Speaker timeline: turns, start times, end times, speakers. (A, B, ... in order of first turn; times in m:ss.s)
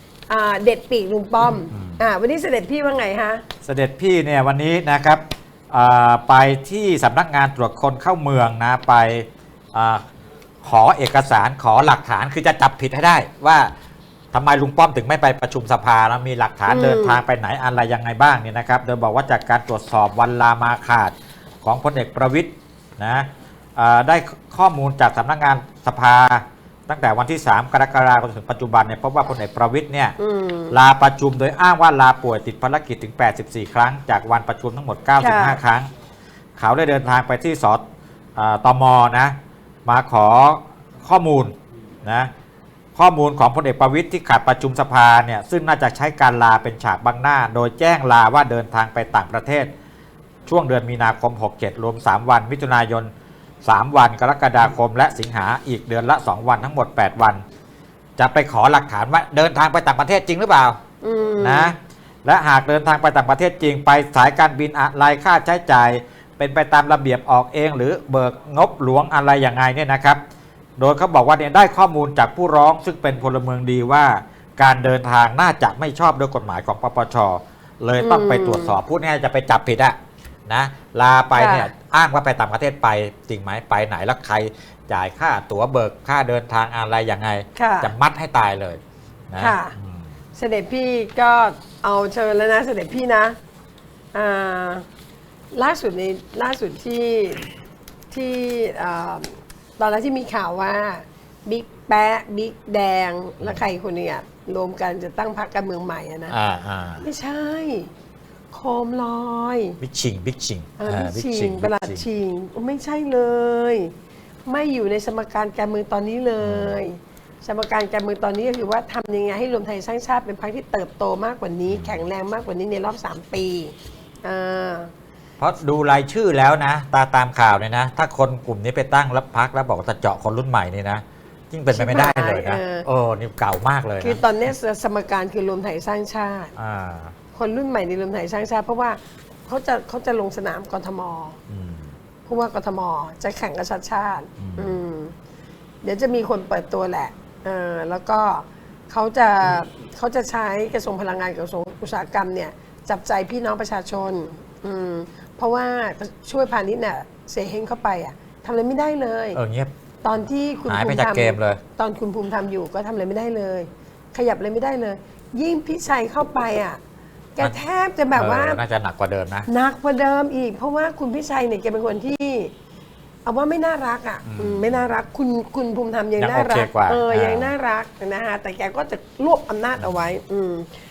0:00.3-0:03.4 A
0:01.7-0:02.0 B
0:03.6-0:10.0 B
0:10.6-0:13.7 B
0:14.3-0:30.2 B
0:16.7-0:17.2 A
0:30.2-0:30.7 A
0:30.7-0:35.9 B
0:35.2-0:35.6 A
0:36.6-0:37.8 B
0:38.4-0:39.3 B
0:39.8-0:42.3 B
0:43.0-0:49.7 B
0:50.5-0:53.1 B
0:53.6-0:57.4 B
0:58.2-1:00.8 B
1:01.0-1:01.7 A
1:01.4-1:10.2 B
1:10.8-1:20.0 B
1:18.0-1:18.8 A
1:20.5-1:30.1 B
1:21.3-1:21.7 A
1:27.6-1:27.9 A
1:29.4-1:29.7 A
1:30.3-1:33.4 A
1:34.1-1:34.8 A
1:35.5-1:37.4 A
1:38.1-1:46.4 A
1:43.4-1:43.6 B
1:46.3-1:47.0 B
1:47.0-1:47.9 A
1:48.5-1:49.8 A
1:49.8-1:52.0 B
1:50.8-1:53.9 A
1:54.4-2:04.9 A
1:56.4-1:56.8 B
2:01.7-2:02.0 B
2:05.4-2:14.2 B
2:11.7-2:12.8 A
2:14.0-2:16.5 A
2:16.6-2:17.1 B
2:17.3-2:21.4 A
2:21.5-2:21.9 B
2:22.2-2:25.1 A
2:24.4-2:24.8 B
2:25.8-2:39.4 A
2:39.3-2:39.7 B
2:40.0-2:46.8 A
2:40.7-2:41.6 B
2:47.4-2:48.6 A
2:48.1-2:49.5 B
2:49.4-2:52.5 A
2:53.2-3:00.7 A
2:54.2-2:54.8 B
2:56.2-2:57.5 B